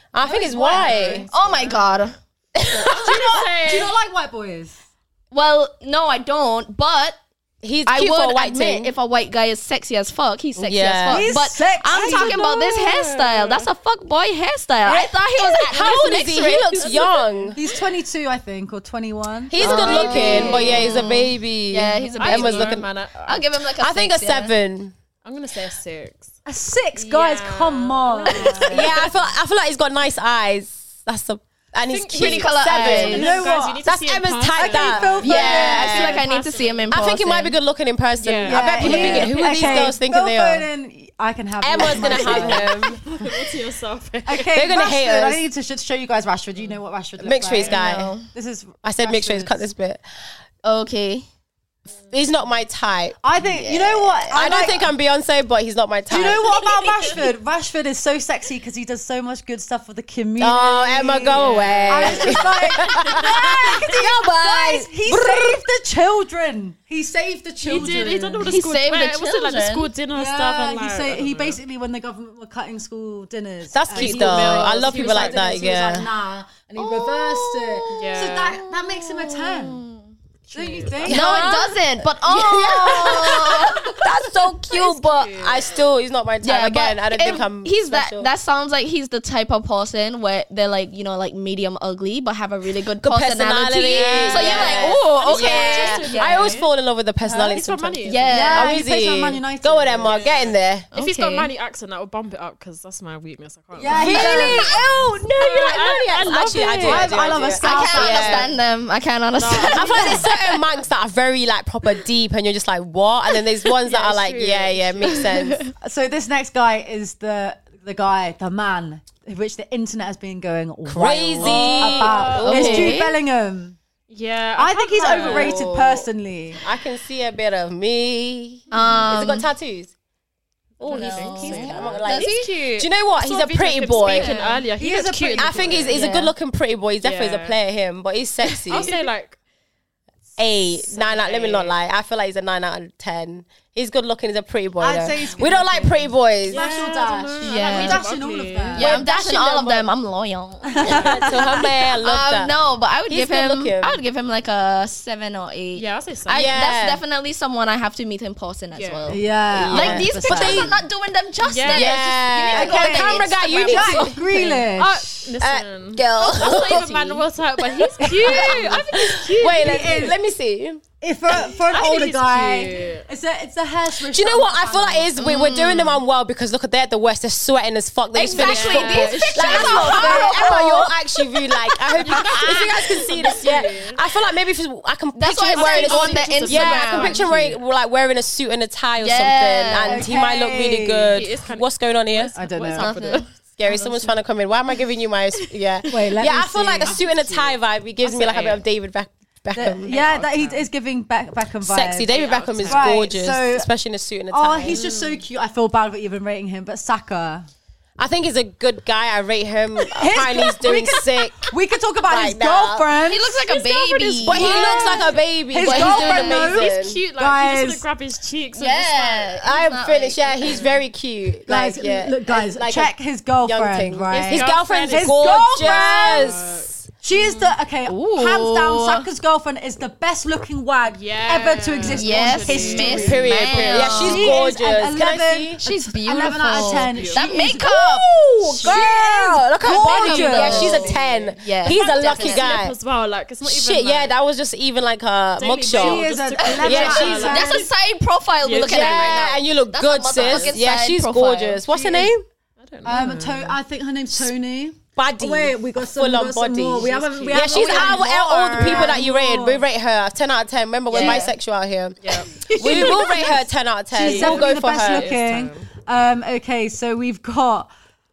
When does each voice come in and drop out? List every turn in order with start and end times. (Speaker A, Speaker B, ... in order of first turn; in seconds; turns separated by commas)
Speaker A: 0.1-1.3, Speaker B: 0.2-1.3, Speaker C: 0.8-1.9, Speaker D: 1.3-2.9, Speaker C: 2.7-3.9, Speaker B: 2.9-4.8, Speaker D: 5.3-7.2, Speaker A: 7.6-8.9, Speaker D: 7.9-17.1, Speaker A: 10.6-11.3, Speaker B: 11.1-12.4, Speaker C: 11.9-13.7, Speaker A: 14.8-17.6, Speaker C: 16.8-17.6, Speaker B: 17.6-20.7, Speaker A: 19.5-22.9, Speaker D: 19.6-24.5, Speaker C: 19.6-21.1, Speaker C: 22.1-23.5, Speaker A: 23.8-24.9, Speaker C: 25.2-26.4, Speaker B: 26.5-28.9, Speaker C: 27.0-29.0, Speaker D: 28.3-29.0, Speaker A: 28.7-33.3, Speaker C: 31.8-37.0, Speaker D: 32.1-33.4, Speaker B: 32.9-33.8, Speaker A: 33.8-36.2, Speaker B: 34.6-36.0, Speaker D: 35.2-37.6, Speaker A: 36.9-40.7, Speaker C: 38.2-40.0, Speaker B: 38.4-43.0, Speaker D: 38.8-39.3, Speaker A: 41.6-43.0, Speaker C: 42.0-44.6, Speaker B: 44.3-49.6, Speaker A: 44.5-45.4, Speaker A: 47.2-48.1, Speaker D: 47.6-48.3, Speaker A: 48.8-50.0, Speaker D: 50.6-51.3, Speaker A: 52.1-53.2, Speaker B: 53.2-54.9, Speaker D: 53.4-54.5, Speaker A: 54.3-56.5, Speaker B: 56.1-68.5, Speaker A: 60.4-65.5, Speaker C: 61.3-62.5, Speaker C: 63.0-63.2, Speaker C: 67.6-71.6, Speaker D: 68.4-69.9, Speaker B: 70.1-79.8, Speaker A: 73.7-76.1, Speaker C: 74.0-75.9, Speaker D: 76.8-77.9, Speaker C: 77.9-78.6, Speaker D: 78.5-80.1, Speaker B: 80.5-82.0, Speaker C: 80.5-81.6, Speaker A: 81.0-81.6, Speaker D: 81.0-85.3, Speaker A: 82.2-88.3, Speaker B: 82.9-83.3, Speaker C: 84.7-85.9, Speaker D: 86.4-96.6, Speaker A: 93.0-100.9, Speaker C: 94.0-96.7, Speaker B: 97.2-97.6, Speaker C: 97.4-98.6, Speaker D: 98.0-98.8, Speaker B: 98.3-100.2, Speaker C: 100.0-108.0, Speaker D: 100.9-101.5, Speaker B: 103.8-104.8, Speaker D: 103.9-105.2, Speaker A: 104.1-108.5, Speaker B: 106.8-108.5, Speaker D: 107.6-110.6, Speaker C: 109.4-110.3, Speaker A: 109.7-115.7, Speaker B: 110.0-110.2, Speaker C: 113.8-115.3, Speaker D: 115.1-115.7, Speaker B: 115.8-123.8, Speaker A: 120.9-123.0, Speaker C: 121.4-122.9, Speaker D: 122.4-123.2, Speaker C: 124.1-125.6, Speaker B: 124.6-126.6, Speaker A: 125.0-126.1, Speaker A: 126.6-129.9, Speaker D: 128.7-129.5, Speaker A: 130.8-134.3, Speaker C: 130.8-136.0, Speaker D: 130.9-132.4, Speaker D: 133.9-134.6, Speaker B: 134.8-135.9, Speaker A: 135.4-138.9, Speaker D: 135.9-136.3, Speaker C: 137.0-137.6, Speaker D: 138.5-139.0, Speaker C: 138.7-139.4, Speaker A: 140.4-146.6, Speaker C: 140.7-141.8, Speaker B: 144.8-149.0, Speaker C: 146.5-148.9, Speaker D: 147.4-148.0, Speaker D: 148.8-151.4, Speaker A: 148.8-149.9, Speaker B: 150.8-151.5, Speaker C: 150.8-151.3, Speaker A: 150.8-152.6, Speaker D: 152.0-164.6, Speaker A: 153.1-154.0, Speaker C: 155.8-156.6, Speaker A: 156.3-157.0, Speaker C: 158.7-159.2, Speaker B: 159.1-160.8, Speaker A: 159.5-160.8, Speaker C: 161.4-162.0, Speaker A: 161.7-164.3, Speaker B: 162.5-165.3, Speaker C: 164.4-170.1, Speaker A: 165.4-166.8, Speaker D: 166.2-167.3, Speaker D: 168.0-168.8, Speaker A: 168.1-170.8, Speaker B: 168.1-168.7, Speaker B: 169.4-170.2, Speaker B: 171.0-175.1, Speaker C: 171.3-173.1, Speaker A: 174.1-192.3, Speaker D: 175.2-176.0, Speaker D: 178.1-181.0, Speaker C: 178.3-180.2, Speaker B: 179.6-180.7, Speaker C: 182.0-184.0, Speaker D: 182.1-183.0, Speaker D: 185.2-187.2, Speaker C: 185.5-187.6, Speaker D: 189.0-190.0, Speaker B: 189.8-191.2, Speaker C: 191.1-193.3, Speaker B: 192.3-193.0, Speaker D: 192.8-194.1, Speaker A: 193.6-200.0, Speaker B: 195.9-197.0, Speaker C: 196.9-198.6, Speaker B: 199.5-202.1, Speaker C: 199.8-200.7, Speaker A: 201.6-204.8, Speaker C: 202.1-203.0, Speaker B: 202.6-203.7, Speaker B: 204.3-207.5, Speaker C: 204.7-205.2, Speaker A: 208.0-211.5, Speaker B: 209.9-217.8, Speaker A: 212.0-212.9, Speaker D: 213.0-215.1, Speaker C: 214.2-214.9, Speaker A: 214.2-217.0, Speaker C: 215.7-219.3, Speaker D: 218.6-220.6, Speaker A: 219.4-226.7, Speaker C: 220.4-220.8, Speaker B: 221.5-226.4, Speaker C: 224.1-227.5, Speaker B: 227.0-237.8, Speaker D: 227.9-229.1, Speaker C: 230.9-234.1, Speaker D: 231.9-234.4, Speaker A: 232.9-235.6, Speaker D: 235.6-238.1, Speaker C: 236.5-237.3, Speaker A: 237.5-242.8, Speaker C: 238.5-238.8, Speaker B: 238.6-241.0, Speaker D: 239.6-242.6, Speaker C: 240.4-244.1, Speaker A: 243.4-246.1, Speaker C: 245.4-247.6, Speaker B: 245.7-247.7, Speaker D: 246.4-251.6, Speaker A: 246.6-247.5, Speaker C: 248.4-249.2, Speaker A: 248.6-252.2, Speaker C: 250.2-250.6, Speaker B: 251.7-252.1, Speaker C: 252.6-253.6, Speaker B: 252.8-259.6, Speaker A: 255.0-265.1, Speaker C: 256.8-258.0, Speaker D: 257.5-259.0, Speaker D: 260.9-261.3, Speaker C: 262.0-263.0, Speaker D: 262.4-263.3, Speaker B: 262.6-263.4, Speaker B: 263.9-267.7, Speaker C: 263.9-265.7